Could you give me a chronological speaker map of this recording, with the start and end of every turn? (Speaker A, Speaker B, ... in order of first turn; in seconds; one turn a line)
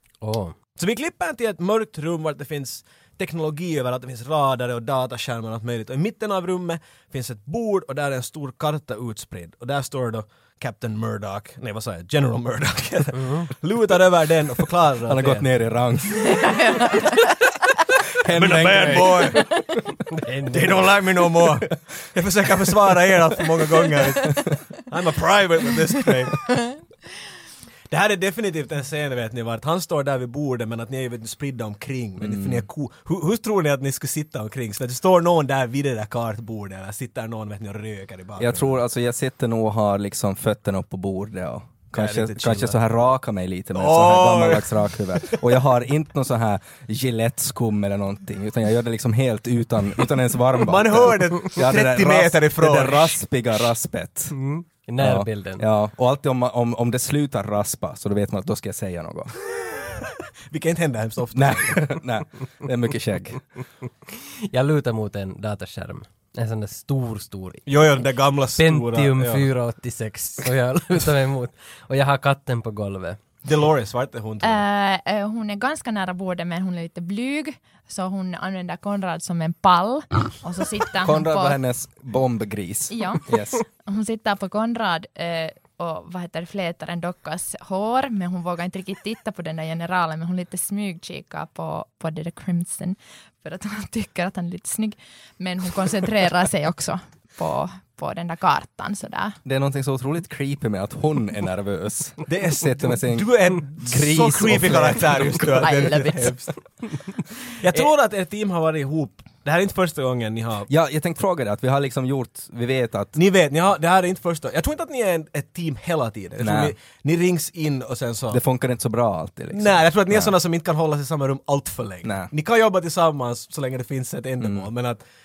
Speaker A: 0.2-0.6
Speaker B: 0.8-15.4
Speaker A: 13.2-13.5
Speaker C: 15.1-16.8
Speaker D: 16.5-17.1
Speaker C: 18.2-19.6
Speaker B: 18.3-19.5
Speaker A: 20.2-20.7
Speaker B: 20.5-26.6
Speaker B: 27.9-38.8
Speaker C: 32.2-32.7
Speaker C: 38.4-54.4
Speaker B: 41.9-42.8
Speaker B: 43.7-45.4
Speaker B: 50.6-53.2
Speaker A: 54.3-55.6
Speaker C: 55.0-59.4
Speaker B: 60.5-62.0
Speaker C: 61.3-63.4
Speaker A: 64.4-67.7
Speaker B: 67.7-69.5
Speaker A: 68.6-73.2
Speaker B: 73.4-74.6
Speaker D: 74.4-81.6
Speaker C: 81.0-83.6
Speaker D: 82.9-99.4
Speaker C: 99.5-105.6
Speaker B: 102.3-106.5
Speaker D: 105.6-106.5
Speaker B: 107.5-110.7
Speaker C: 110.7-113.2
Speaker B: 113.2-118.4
Speaker C: 116.4-116.7
Speaker C: 118.3-120.4
Speaker B: 119.5-125.0
Speaker C: 122.0-122.3
Speaker C: 124.4-124.7